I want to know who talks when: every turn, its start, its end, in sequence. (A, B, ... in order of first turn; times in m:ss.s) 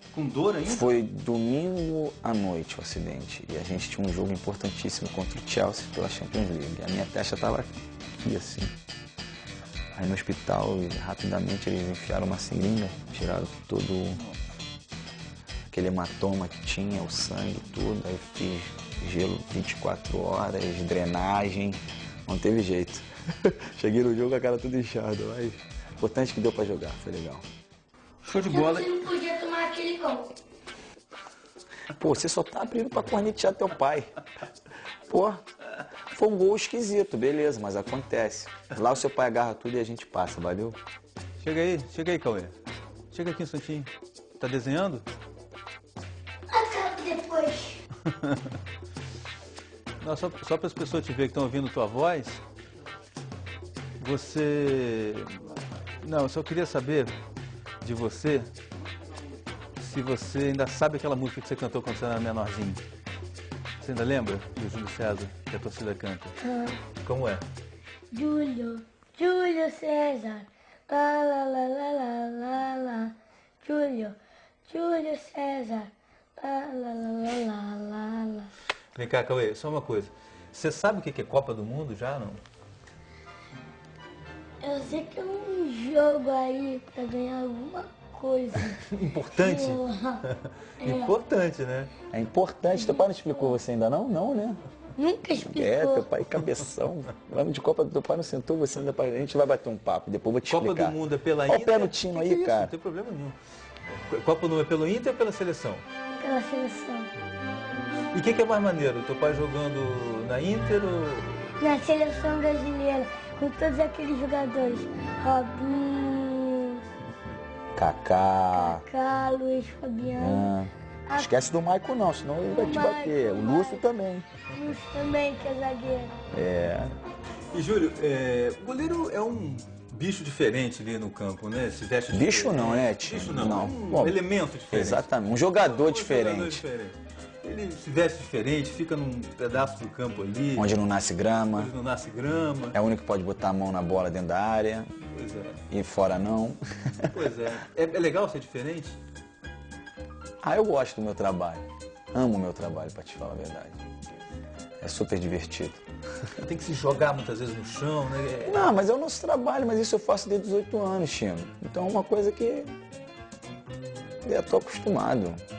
0:00.1-0:00.9 A
0:00.6-0:08.7 B
0:09.9-0:14.2 B
0:15.7-0:27.4 B
0:28.2-0:29.0 A
0:28.4-0:30.3 C
0:32.0-0:34.1 B
0:35.1-0:35.4 B
0:36.1-0:40.8 B
0:41.4-0:42.6 A
0:43.1-0:45.1 A
0:46.5-0:47.8 C
0:48.1-0:48.4 A
0:50.0-0:52.4 A
0:54.0-0:57.2 A
0:57.8-0:58.5 A
0:59.8-1:02.8 A
1:03.8-1:06.4 A
1:06.4-1:06.8 C
1:07.0-1:07.4 A
1:08.1-1:18.5 C
1:19.0-1:22.4 A
1:24.6-1:28.8 C
1:28.8-1:31.9 A
1:29.4-1:30.2 C
1:30.8-1:31.1 C
1:32.1-1:34.6 B
1:32.7-1:33.6 C
1:35.0-1:36.1 C
1:35.4-1:42.7 B
1:40.5-1:43.4 A
1:44.1-1:45.8 A
1:46.2-1:47.1 C
1:48.1-1:51.5 A
1:51.6-1:56.8 C
1:57.8-1:58.8 B
1:58.5-2:00.5 C
2:00.1-2:04.3 B
2:01.1-2:01.3 C
2:02.4-2:03.8 C
2:04.5-2:06.1 C
2:06.3-2:06.9 B
2:07.5-2:20.7 A
2:12.1-2:16.6 B
2:20.6-2:21.7 B
2:21.5-2:22.8 A
2:22.7-2:24.9 B
2:25.1-2:25.6 A
2:25.7-2:27.2 B
2:27.1-2:29.0 A
2:30.4-2:33.9 B
2:34.8-2:35.8 B
2:36.4-2:38.8 A
2:38.4-2:42.7 B
2:44.2-2:45.4 B